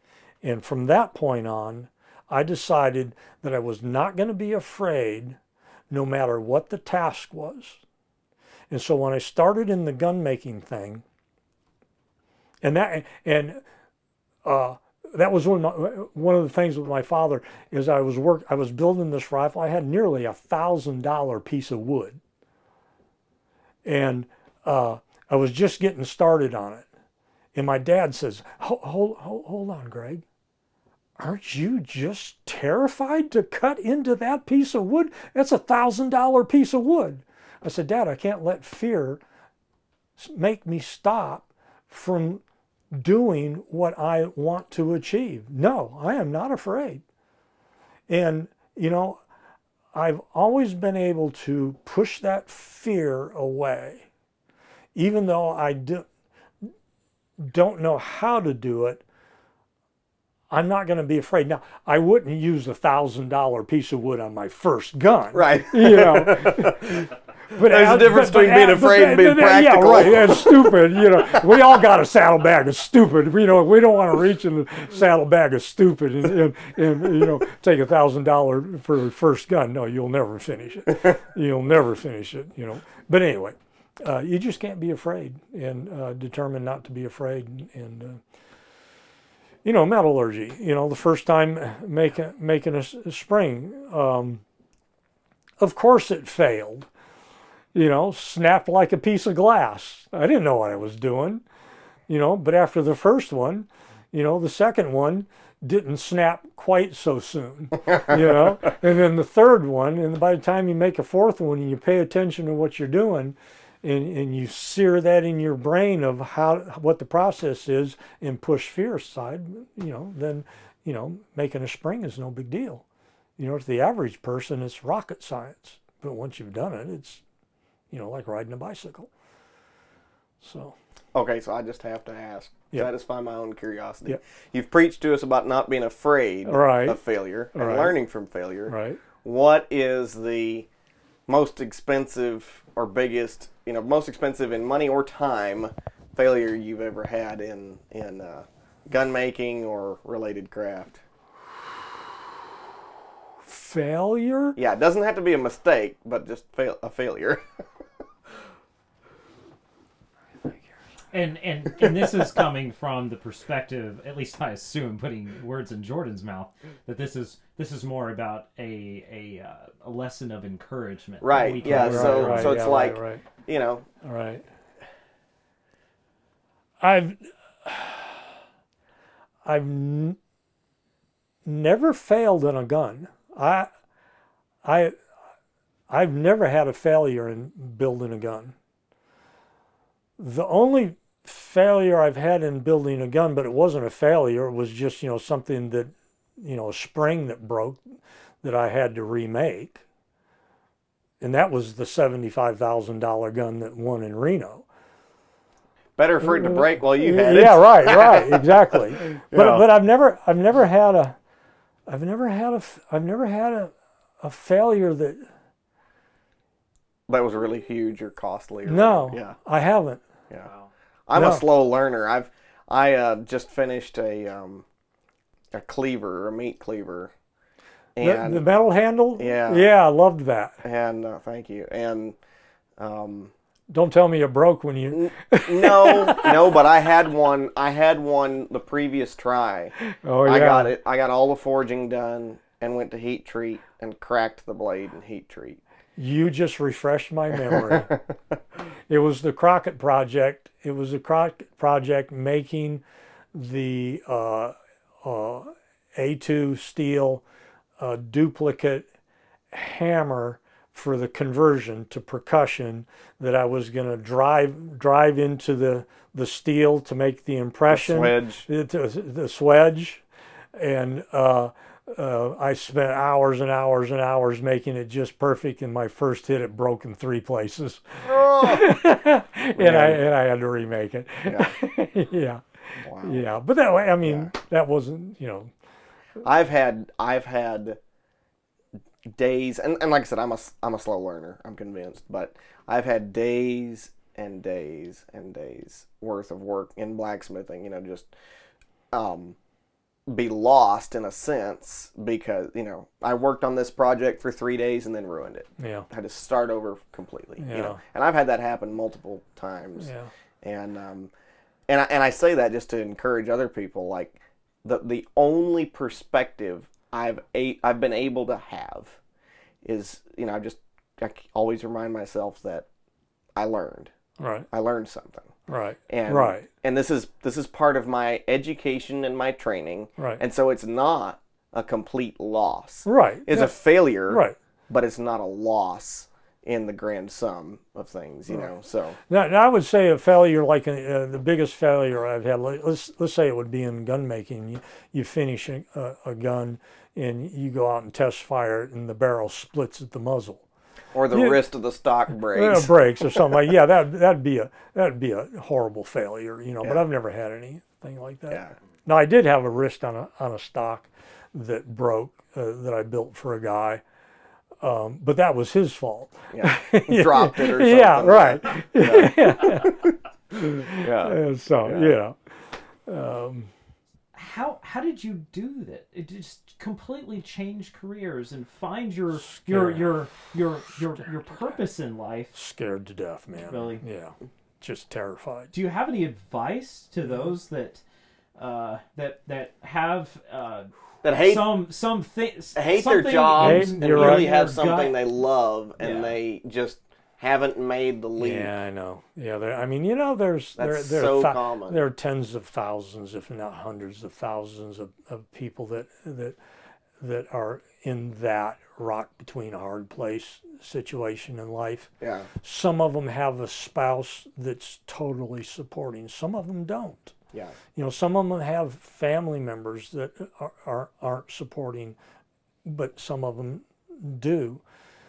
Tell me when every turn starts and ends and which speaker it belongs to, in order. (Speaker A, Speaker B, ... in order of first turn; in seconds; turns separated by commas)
Speaker A: 0.4-5.4, Speaker A: 5.9-7.8, Speaker A: 8.7-11.0, Speaker A: 12.6-13.6, Speaker A: 14.4-22.2, Speaker A: 23.9-26.9, Speaker A: 27.5-30.2, Speaker A: 31.2-39.2, Speaker A: 40.2-47.0, Speaker A: 48.1-49.2, Speaker A: 49.9-54.1, Speaker A: 55.0-56.1, Speaker A: 57.4-59.0, Speaker A: 60.5-88.2, Speaker B: 65.3-67.1, Speaker B: 67.6-71.5, Speaker A: 89.6-94.4, Speaker A: 95.6-96.9, Speaker A: 97.7-101.4, Speaker A: 102.1-122.9, Speaker A: 123.4-127.2, Speaker A: 127.9-129.1, Speaker A: 130.4-130.8, Speaker B: 131.1-140.7, Speaker A: 136.4-137.0, Speaker A: 137.5-137.9, Speaker A: 138.7-139.0, Speaker B: 141.3-151.0, Speaker A: 153.4-154.6, Speaker B: 154.6-157.6, Speaker C: 161.1-172.7, Speaker B: 171.2-173.9, Speaker A: 171.6-173.2, Speaker A: 174.0-174.4, Speaker A: 176.8-178.3, Speaker A: 179.4-180.2, Speaker A: 181.4-183.7, Speaker A: 184.6-184.9, Speaker A: 185.9-188.6, Speaker A: 190.2-197.8, Speaker A: 198.4-199.8, Speaker A: 201.2-204.7, Speaker B: 206.0-209.7, Speaker A: 206.2-211.2, Speaker A: 211.9-215.3, Speaker B: 217.1-219.4, Speaker A: 218.7-220.0, Speaker C: 220.4-220.7, Speaker B: 221.1-224.7, Speaker A: 221.1-221.4, Speaker B: 225.5-227.1, Speaker B: 228.0-228.4, Speaker A: 228.0-230.6, Speaker B: 229.2-229.7, Speaker B: 230.6-232.2, Speaker B: 232.8-233.3, Speaker A: 233.7-236.6, Speaker B: 234.9-245.6, Speaker A: 239.8-240.7, Speaker A: 246.0-247.9, Speaker A: 248.9-252.8, Speaker A: 253.3-257.2, Speaker A: 257.8-258.9, Speaker A: 259.5-270.0, Speaker B: 267.7-268.5, Speaker A: 270.6-285.5, Speaker B: 278.0-278.7, Speaker B: 279.6-280.0, Speaker B: 281.3-281.6, Speaker B: 282.8-283.2, Speaker B: 284.0-284.3, Speaker B: 286.2-287.8, Speaker B: 289.1-298.1, Speaker B: 298.9-299.4, Speaker B: 300.1-309.9, Speaker A: 305.6-305.9, Speaker A: 307.4-307.8, Speaker A: 309.8-310.1, Speaker B: 310.4-311.1, Speaker B: 311.7-319.0, Speaker B: 319.6-322.7, Speaker B: 323.4-323.9, Speaker A: 324.2-324.5, Speaker B: 324.5-325.3, Speaker A: 325.5-326.5, Speaker B: 325.9-339.0, Speaker A: 332.9-333.5, Speaker A: 334.1-334.4, Speaker A: 339.1-350.5, Speaker B: 350.9-353.4, Speaker A: 351.1-351.4, Speaker A: 352.1-363.8, Speaker A: 364.6-373.5, Speaker B: 366.3-369.9, Speaker B: 370.6-371.9, Speaker C: 374.1-382.4, Speaker A: 379.3-379.9, Speaker A: 382.3-385.5, Speaker C: 383.5-383.8, Speaker C: 385.5-387.8, Speaker C: 388.4-395.0, Speaker B: 391.0-391.6, Speaker B: 392.6-398.5, Speaker A: 393.4-394.3, Speaker C: 395.8-396.2, Speaker A: 398.2-406.4, Speaker B: 400.6-401.8, Speaker A: 407.0-417.2, Speaker B: 412.0-412.3, Speaker A: 417.8-422.0, Speaker A: 422.6-424.6